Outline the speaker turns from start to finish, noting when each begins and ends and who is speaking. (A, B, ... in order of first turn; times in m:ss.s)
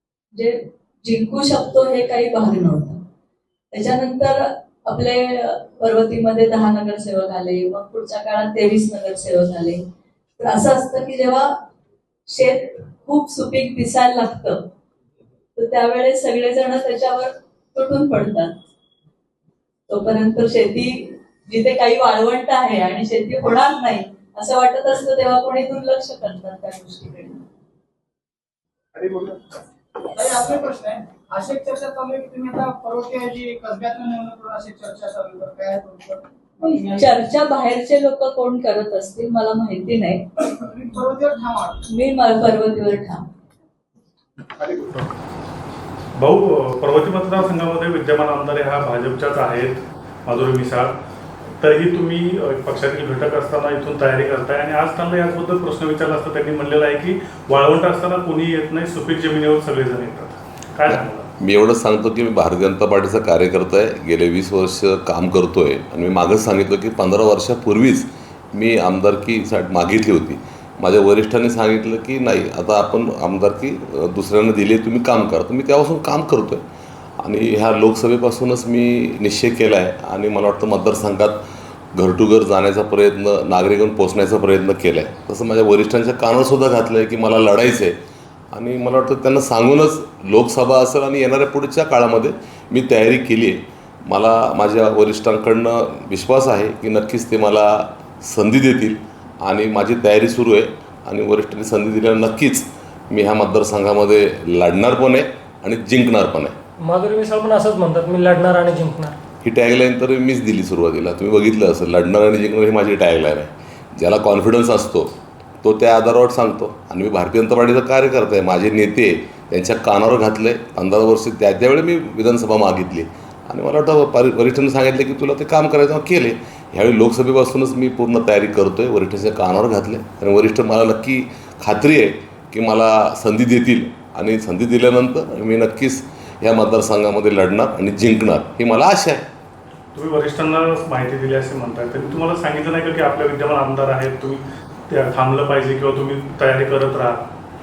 0:00.4-0:03.0 A
0:03.7-0:09.8 A
0:10.4-0:11.5 A
0:12.3-0:14.6 A
0:15.6-0:18.5 A
0:19.9-0:27.4 A
0:29.0-0:29.4 B
0:30.1-0:37.1 B
0:36.6-0:40.5 A
0:40.5-0:41.8 B
0:41.9-0:43.3 A
0:46.2-0:50.9 C
0:51.6-1:01.3 C
1:00.9-1:16.6 D
1:17.2-1:28.0 D
1:28.5-1:46.6 D
1:46.8-1:49.2 E
1:49.4-1:55.1 D
1:55.6-2:19.2 D
2:20.0-2:27.3 C